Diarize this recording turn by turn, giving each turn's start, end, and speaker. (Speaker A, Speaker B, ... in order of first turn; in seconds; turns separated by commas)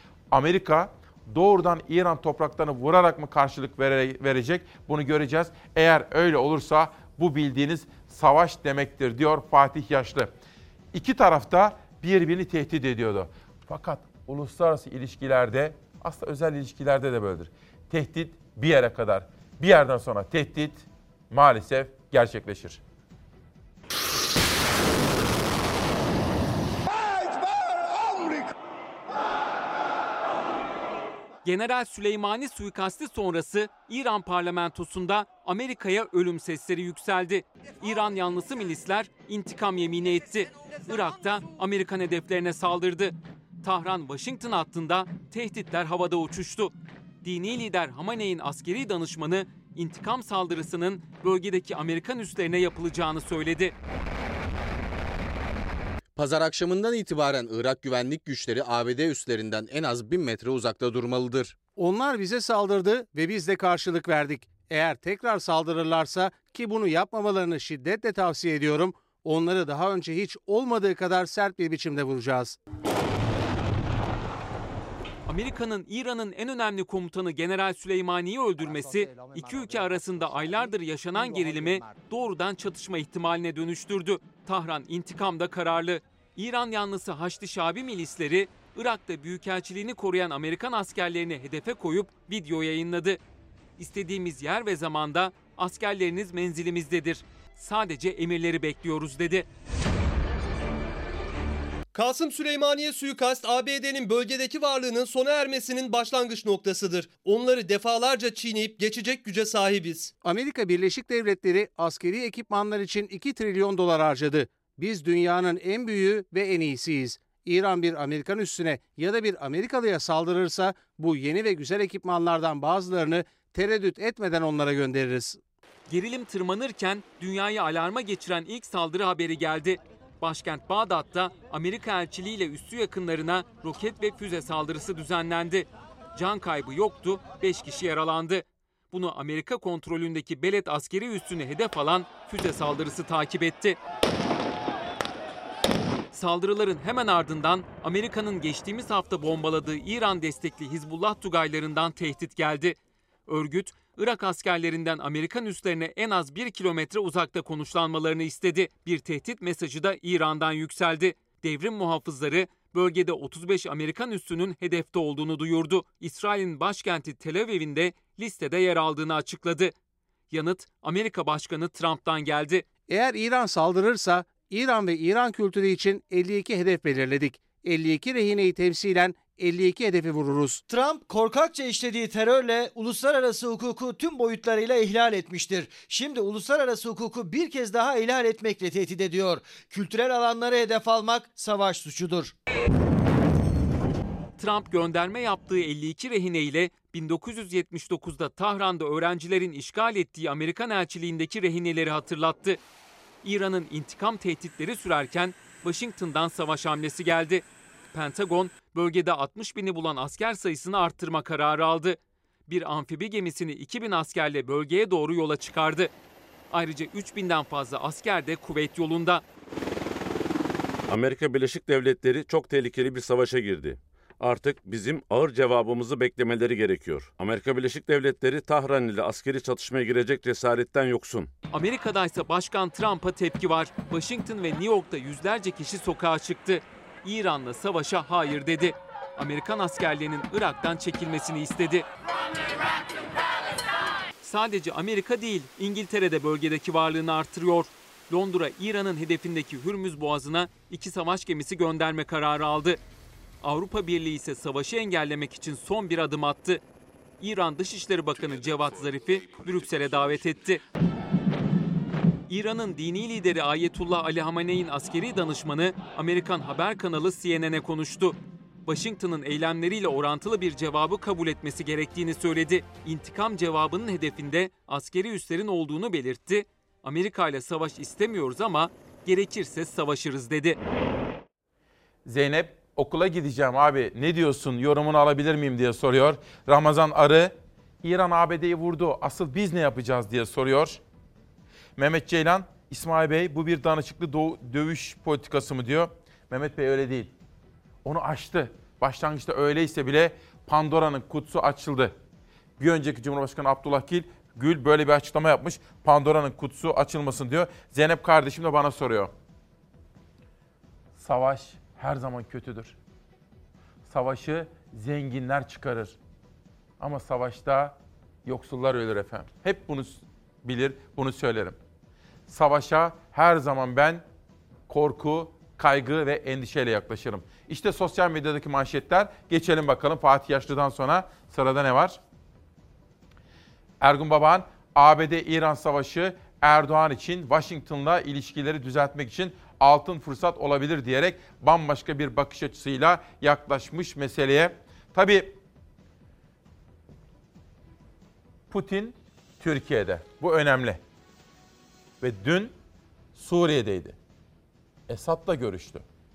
Speaker A: 0.3-10.3, Speaker A: 10.9-22.8, Speaker B: 31.4-46.7, Speaker B: 47.2-53.7, Speaker C: 56.1-61.5, Speaker D: 61.8-72.6, Speaker B: 75.2-93.2, Speaker B: 93.8-99.5, Speaker E: 101.9-110.1, Speaker D: 110.2-125.4, Speaker B: 125.9-143.8, Speaker B: 146.1-169.7, Speaker B: 170.3-172.6, Speaker D: 172.9-180.6, Speaker F: 180.7-192.3, Speaker B: 194.4-202.6, Speaker B: 203.2-215.9, Speaker B: 216.5-219.2, Speaker G: 220.9-231.3, Speaker B: 231.5-241.8, Speaker B: 244.2-252.8, Speaker B: 253.4-256.6, Speaker B: 257.2-260.6, Speaker B: 262.3-280.6, Speaker A: 282.1-290.8, Speaker A: 291.8-297.1, Speaker A: 297.8-301.9, Speaker A: 302.6-309.1, Speaker A: 310.9-312.8, Speaker A: 313.9-315.9, Speaker A: 316.8-321.6, Speaker A: 322.3-324.0, Speaker A: 324.7-332.0, Speaker A: 333.8-345.4, Speaker A: 348.5-350.8, Speaker A: 352.0-352.5, Speaker A: 353.1-353.9, Speaker A: 354.9-355.8